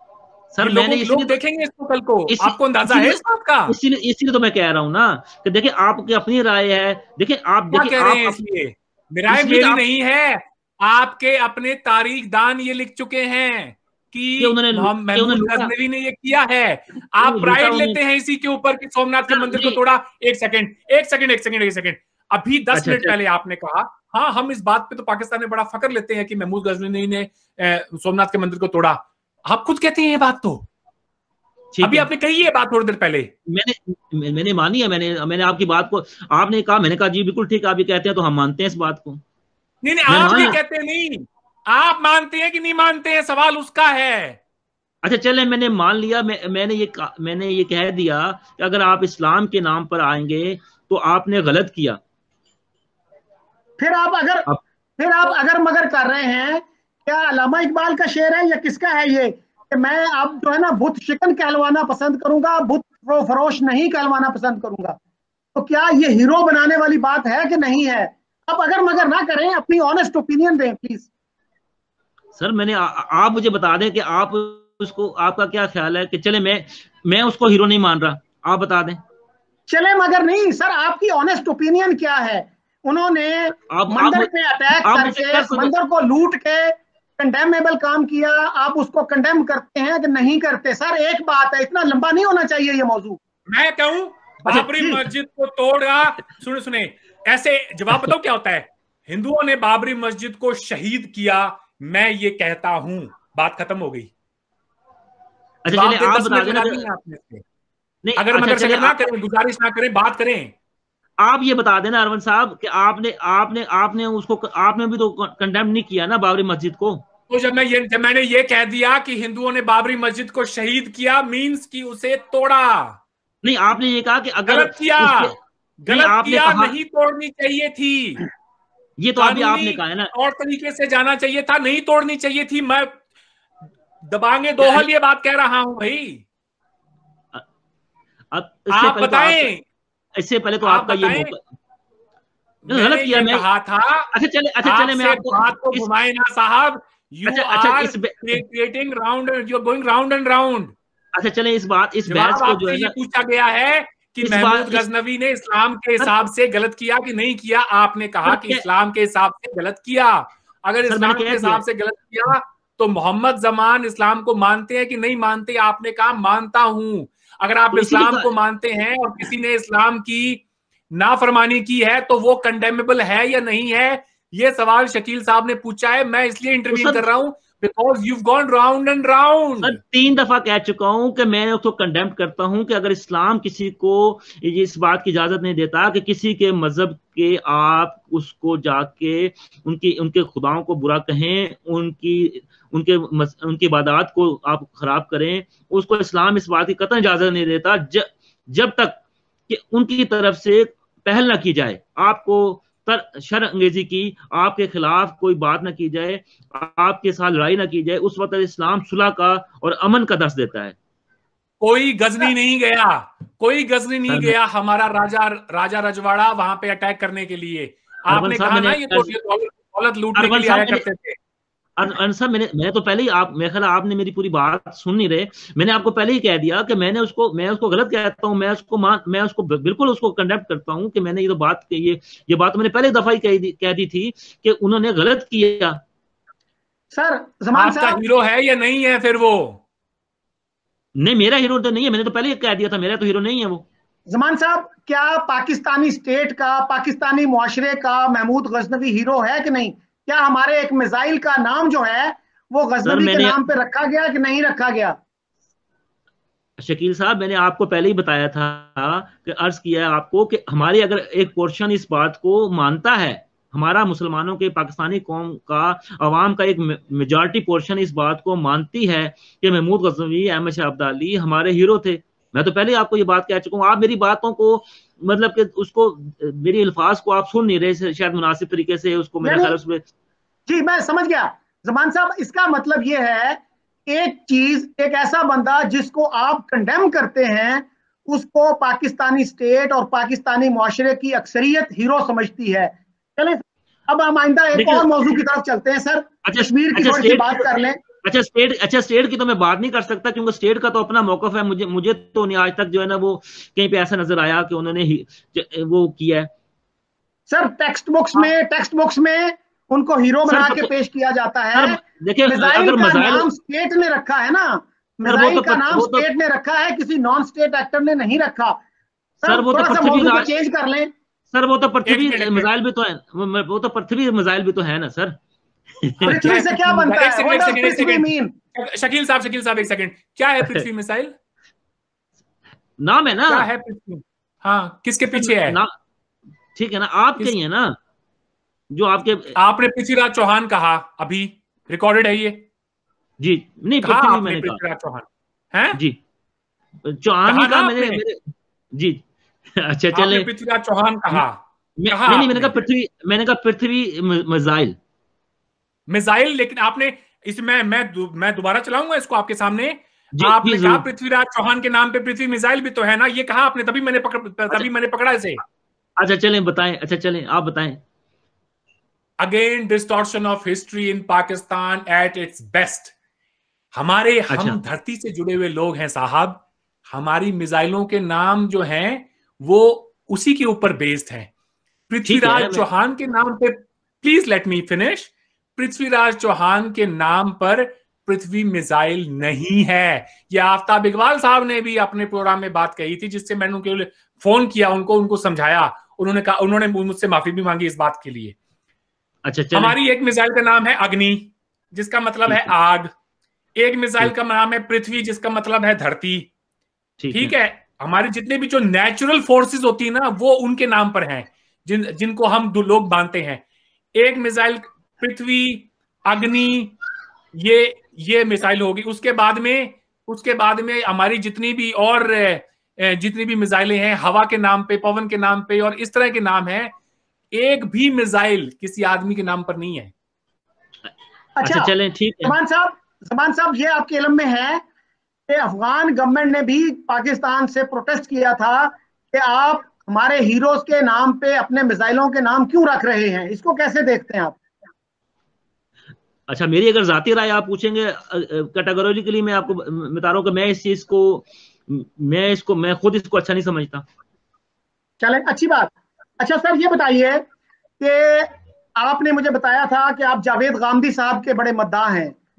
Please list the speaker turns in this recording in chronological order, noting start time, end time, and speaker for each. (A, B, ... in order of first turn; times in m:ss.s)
0:00.5-0:01.4 A
0:00.6-0:03.7 B
0:02.3-0:08.4 A
0:07.7-0:30.7 B
0:09.3-0:09.8 A
0:14.4-0:15.7 A
0:17.2-0:18.0 A
0:19.3-0:19.8 A
0:22.7-0:23.2 A
0:31.8-0:32.1 A
0:31.8-0:33.3 B
0:33.5-0:39.2 A
0:39.8-0:44.4 B
0:40.1-0:40.6 A
0:45.0-0:52.0 A
0:53.8-0:54.5 C
0:55.0-1:05.0 C
1:05.5-1:11.1 C
1:12.4-1:19.0 A
1:19.7-1:33.2 C
1:23.7-1:25.7 A
1:33.5-1:44.1 B
1:34.6-1:35.0 C
1:45.6-1:46.8 A
1:45.7-1:47.4 B
1:48.0-1:49.1 A
1:48.2-1:50.5 B
1:51.2-1:57.0 A
1:57.3-2:03.0 B
2:03.4-2:05.4 A
2:04.5-2:08.2 B
2:05.9-2:06.8 A
2:09.0-2:10.1 A
2:09.2-2:13.0 B
2:14.1-2:16.2 B
2:14.6-2:14.9 A
2:18.3-2:19.5 A
2:18.7-2:19.6 B
2:20.2-2:21.4 A
2:20.6-2:21.3 B
2:22.7-2:24.1 B
2:22.7-2:23.4 A
2:24.1-2:25.9 A
2:24.6-2:30.7 B
2:27.3-2:28.4 A
2:31.2-2:32.9 A
2:32.1-2:50.4 B
2:34.2-2:34.8 A
2:38.3-2:38.6 A
2:40.9-2:41.6 A
2:47.7-2:48.3 A
2:51.0-2:59.8 B
2:56.7-2:57.1 A
2:59.6-3:30.8 A
3:31.6-3:41.2 B
3:34.1-3:34.4 A
3:38.1-3:39.1 A
3:40.2-3:40.8 A
3:41.8-3:55.8 A
3:56.9-3:58.0 C
3:57.6-3:59.6 B
4:01.0-4:03.6 A
4:04.1-4:15.0 C
4:12.8-4:13.4 A
4:16.6-4:39.8 A
4:39.2-4:39.6 C
4:40.5-4:57.8 C
4:54.5-4:54.9 A
4:56.2-4:57.5 A
4:58.0-5:06.3 A
5:07.3-5:18.6 C
5:10.3-5:10.7 A
5:11.5-5:13.3 A
5:15.0-5:16.1 A
5:19.2-5:20.9 C
5:19.3-5:20.3 A
5:21.3-5:25.2 A
5:21.9-5:22.5 B
5:25.8-5:26.2 A
5:26.0-5:28.3 C
5:26.0-5:31.1 B
5:32.8-5:33.5 A
5:33.3-5:35.6 B
5:35.1-5:35.7 A
5:36.6-5:37.8 A
5:38.7-5:39.4 A
5:39.4-5:42.4 B
5:43.2-5:44.6 A
5:43.8-5:45.8 B
5:46.8-5:49.0 A
5:47.3-5:48.0 B
5:49.6-5:50.3 A
5:49.9-5:52.5 B
5:51.8-5:54.8 A
5:55.9-6:05.4 B
6:00.2-6:00.8 A
6:06.0-6:07.8 A
6:09.2-6:12.9 B
6:13.7-6:21.3 B
6:14.3-6:14.6 A
6:21.9-6:38.4 B
6:22.1-6:22.6 A
6:39.2-6:39.7 A
6:39.5-6:42.9 B
6:43.6-6:46.3 B
6:47.0-6:47.3 A
6:47.1-6:53.4 B
6:54.0-6:56.8 B
6:57.4-7:06.7 B
7:07.3-7:09.9 B
7:11.4-7:11.7 C
7:11.4-7:12.4 A
7:12.2-7:14.6 C
7:15.3-7:24.4 C
7:26.3-7:33.8 A
7:35.0-7:37.2 C
7:37.8-7:42.2 C